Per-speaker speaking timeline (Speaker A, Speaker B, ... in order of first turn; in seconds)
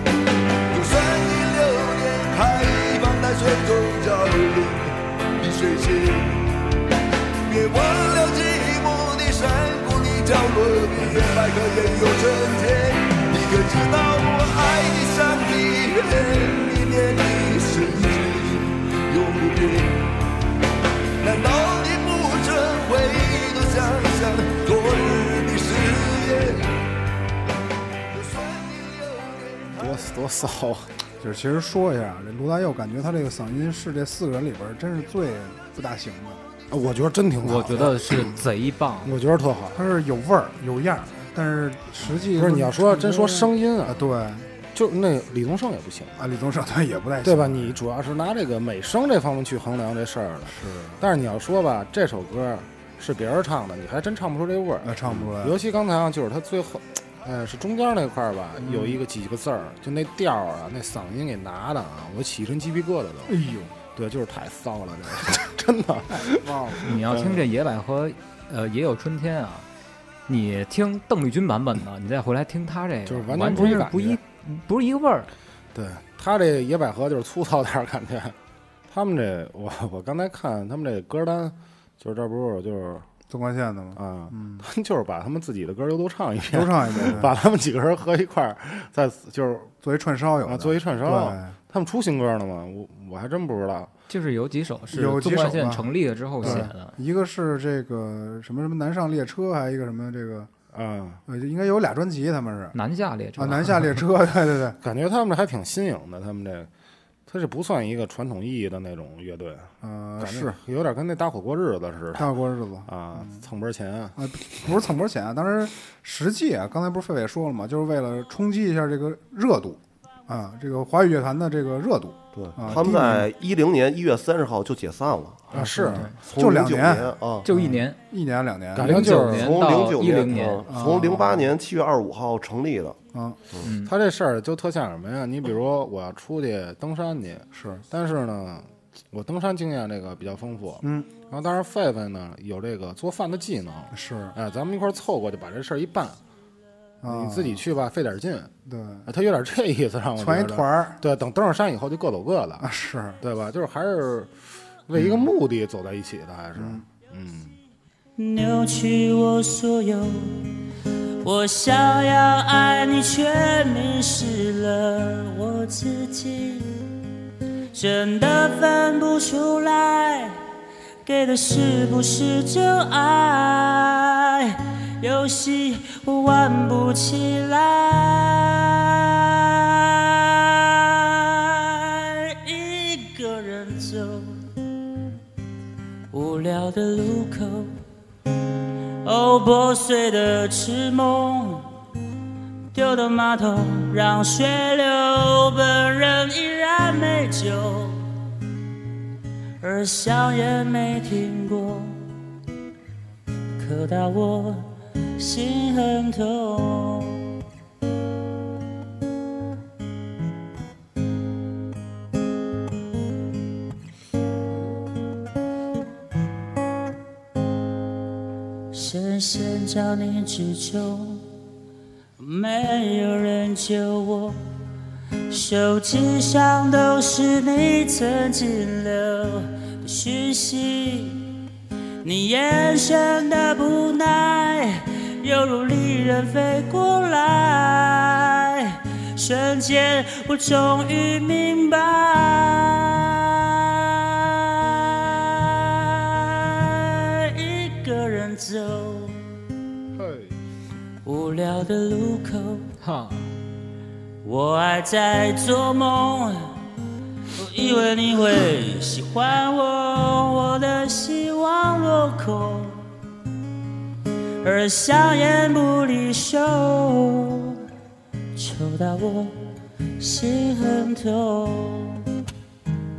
Speaker A: 0.7-6.5, 7.4-20.0, 21.2-26.8, 28.1-29.8
Speaker B: 29.8-30.9, 36.7-38.4, 39.0-39.8, 42.1-44.1, 44.7-46.2, 47.2-63.4, 63.9-67.5, 73.0-74.2, 75.7-78.3, 78.9-83.1, 83.9-89.7, 90.4-93.9, 96.4-96.7, 100.7-101.2, 104.8-106.7, 107.3-112.3, 112.8-114.2, 122.7-123.0, 125.5-126.1, 128.7-129.9, 133.7-146.2, 147.0-148.5, 149.1-152.7, 153.2-157.5, 249.9-250.3
Speaker C: 31.2-36.4, 39.7-44.5, 46.2-47.8, 50.5-51.0, 54.8-55.6, 58.6-59.0, 63.3-63.7, 66.2-66.8, 83.3-84.6, 86.5-87.3, 89.8-91.5, 94.9-95.8, 96.4-100.5, 101.3-102.7, 103.4-104.8, 109.8-110.6, 112.2-113.4, 114.2-123.1, 125.5-129.0, 130.7-131.4, 137.5-137.8, 140.8-141.1, 143.9-144.3, 147.0-147.6, 148.7-149.1, 150.2-151.0, 152.6-153.2, 156.6-156.8
Speaker D: 37.4-39.2, 66.8-69.7, 70.3-75.3, 94.1-96.9, 102.7-103.9, 127.5-128.0, 128.8-130.6, 133.6-133.9, 252.8-253.3
Speaker E: 122.3-125.5, 126.2-127.5, 129.1-133.0
Speaker F: 158.2-160.4, 161.2-166.8, 167.7-170.4, 171.0-184.4, 186.1-187.8, 189.0-191.7, 192.7-198.0, 199.6-202.0, 203.6-207.3, 218.7-221.2, 222.2-224.4, 225.3-231.3, 232.0-249.2, 251.0-252.7, 254.2-256.5, 257.4-262.8, 264.4-267.6, 268.3-272.1